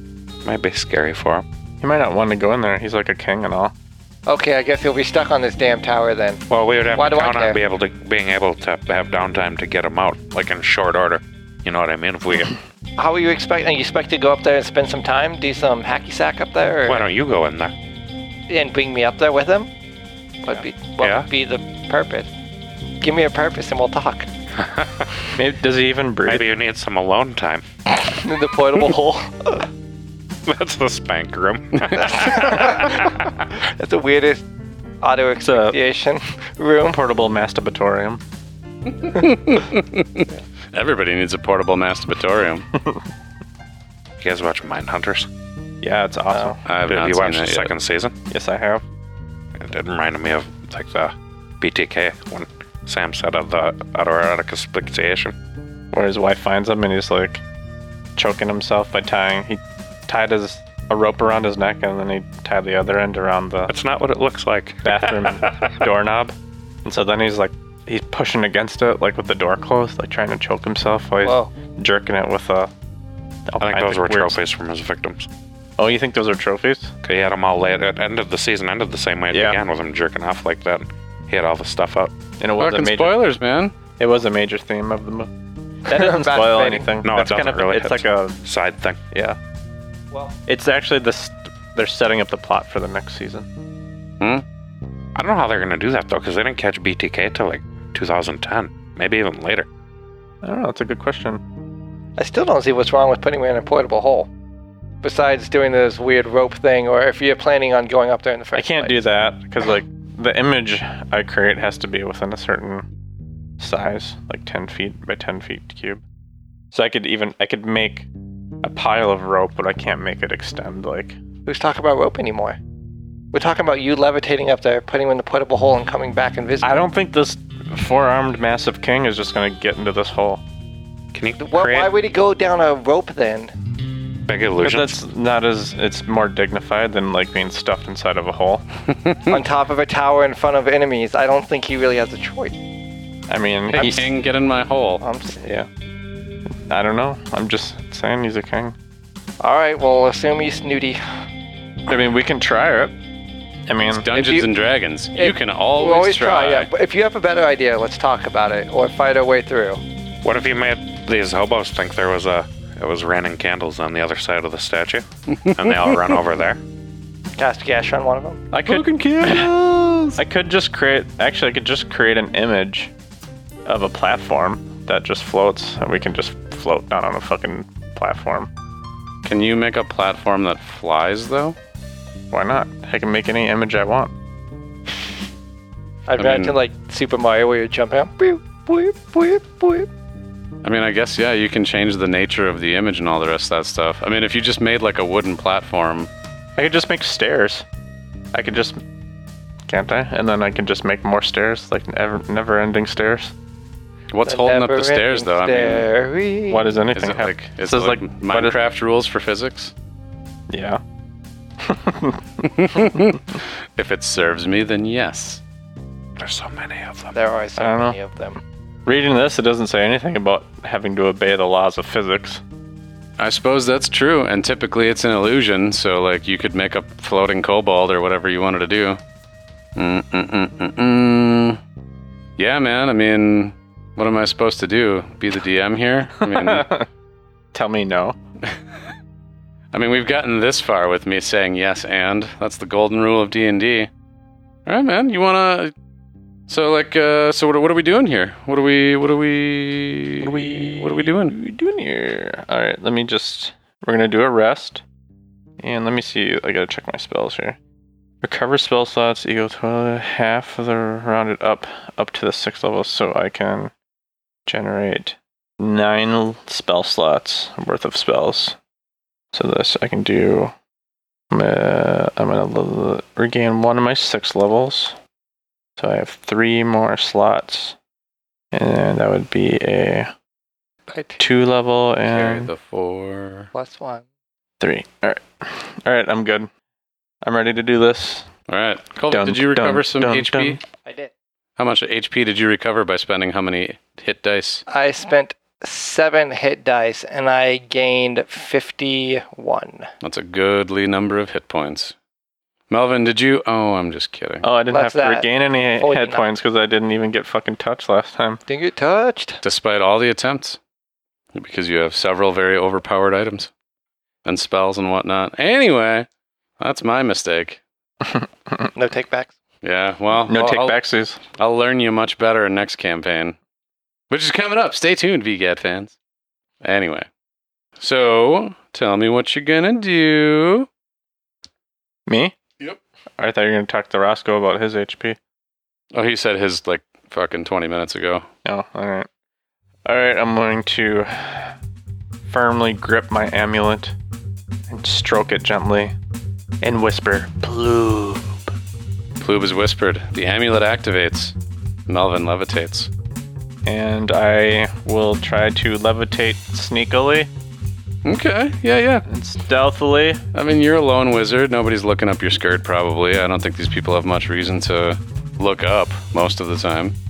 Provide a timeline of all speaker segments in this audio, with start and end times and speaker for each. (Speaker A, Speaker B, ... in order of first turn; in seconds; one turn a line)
Speaker A: 0.4-1.4
Speaker B: 1.8-3.7
Speaker C: 4.3-6.4
Speaker A: 6.5-12.6
Speaker C: 6.9-7.6
Speaker C: 13.0-17.1
Speaker A: 16.9-17.7
Speaker C: 18.5-19.7
Speaker C: 20.5-22.3
Speaker A: 21.0-21.3
Speaker C: 23.0-24.3
Speaker A: 24.6-25.3
Speaker B: 25.4-26.5
Speaker A: 26.2-27.7
Speaker C: 27.9-29.7
Speaker A: 30.5-33.3
Speaker C: 32.0-34.4
Speaker C: 35.0-37.0
Speaker B: 35.5-35.8
Speaker B: 36.9-38.2
Speaker D: 39.0-42.7
Speaker A: 44.2-45.3
Speaker B: 45.8-46.6
Speaker D: 46.6-47.7
Speaker A: 46.9-48.2
Speaker B: 48.3-48.9
Speaker A: 49.6-55.4
Speaker B: 55.9-57.4
Speaker B: 58.2-63.7
Speaker A: 63.7-65.7
Speaker B: 64.8-72.7
Speaker C: 71.2-71.5
Speaker B: 73.5-74.4
Speaker A: 73.6-75.3
Speaker B: 75.8-76.9
Speaker A: 77.0-82.1
Speaker B: 79.3-79.6
Speaker B: 82.4-83.2
Speaker D: 82.6-83.8
Speaker B: 84.0-85.3
Speaker B: 85.9-88.4
Speaker C: 85.9-86.9
Speaker A: 87.0-89.0
Speaker B: 89.1-89.4
Speaker B: 90.5-93.5
Speaker A: 95.2-99.7
Speaker B: 100.4-101.4
Speaker C: 102.2-104.3
Speaker C: 105.0-109.0
Speaker B: 108.5-112.9
Speaker B: 113.6-116.0
Speaker B: 116.7-118.1
Speaker B: 118.6-121.2
Speaker C: 121.5-122.6
Speaker C: 123.3-126.7
Speaker B: 126.6-130.4
Speaker A: 131.1-131.9
Speaker C: 131.4-133.5
Speaker A: 134.3-135.0
Speaker B: 134.6-138.6
Speaker D: 138.9-139.3
Speaker C: 139.3-142.6
Speaker B: 143.3-144.1
Speaker D: 143.7-145.0
Speaker C: 145.0-145.4
Speaker B: 145.4-145.7
Speaker B: 146.5-148.8
Speaker C: 149.4-151.0
Speaker B: 151.9-153.0
Speaker B: 153.7-154.1
Speaker D: 153.9-156.7
Speaker C: 154.1-154.5
Speaker C: 155.2-159.8
Speaker A: 160.2-166.6
Speaker D: 165.4-166.2
Speaker C: 167.4-168.4
Speaker B: 168.5-169.5
Speaker D: 168.7-170.2
Speaker B: 170.2-172.9
Speaker B: 173.7-178.5
Speaker D: 179.2-181.6
Speaker B: 182.3-184.1
Speaker C: 186.1-189.9
Speaker D: 186.2-186.6
Speaker D: 190.6-196.1
Speaker B: 196.6-197.7
Speaker B: 198.3-198.8
Speaker B: 199.7-203.3
Speaker D: 204.1-205.9
Speaker C: 204.3-206.7
Speaker B: 206.5-208.6
Speaker D: 206.9-209.7
Speaker B: 210.5-210.8
Speaker B: 211.6-212.4
Speaker D: 212.4-215.4
Speaker A: 216.2-217.1
Speaker C: 217.1-218.4
Speaker B: 217.6-218.0
Speaker B: 218.9-222.4
Speaker D: 223.2-229.0
Speaker D: 229.8-231.6
Speaker D: 232.4-236.7
Speaker B: 236.2-236.9
Speaker B: 237.5-238.2
Speaker D: 239.7-243.9
Speaker D: 244.7-245.7
Speaker D: 246.5-251.3
Speaker B: 250.2-254.8
Speaker B: 255.6-257.6
Speaker B: 258.2-263.7
Speaker B: 264.5-268.6
Speaker B: 269.3-270.5
Speaker B: 271.3-275.0
Speaker B: 275.8-277.8
Speaker B: 278.5-280.1
Speaker C: 280.9-281.2
Speaker B: 281.2-282.5
Speaker D: 282.1-283.5
Speaker C: 283.5-284.0
Speaker B: 284.6-286.5
Speaker B: 287.2-288.3
Speaker D: 288.5-290.6
Speaker B: 289.1-290.6
Speaker C: 290.8-291.1
Speaker D: 291.6-294.6
Speaker C: 294.7-299.9
Speaker D: 300.0-302.0
Speaker D: 302.7-304.5
Speaker B: 304.4-308.4
Speaker C: 304.7-306.3
Speaker C: 308.5-309.4
Speaker D: 309.4-310.6
Speaker D: 311.3-313.5
Speaker D: 314.2-316.1
Speaker D: 316.6-317.6
Speaker B: 318.1-318.6
Speaker C: 318.8-319.3
Speaker D: 319.6-320.8
Speaker B: 320.3-321.2
Speaker C: 320.3-320.6
Speaker D: 321.4-323.4
Speaker D: 324.1-326.0
Speaker D: 326.6-327.1
Speaker D: 327.8-330.7
Speaker B: 332.1-332.4
Speaker B: 333.2-335.2
Speaker D: 335.9-338.3
Speaker B: 338.4-339.1
Speaker B: 339.9-341.6
Speaker B: 342.3-343.9
Speaker B: 344.7-345.9
Speaker B: 346.6-348.4
Speaker D: 349.2-351.4
Speaker D: 351.9-352.9
Speaker B: 353.6-357.3
Speaker D: 358.0-359.1
Speaker B: 359.1-360.2
Speaker D: 360.3-366.9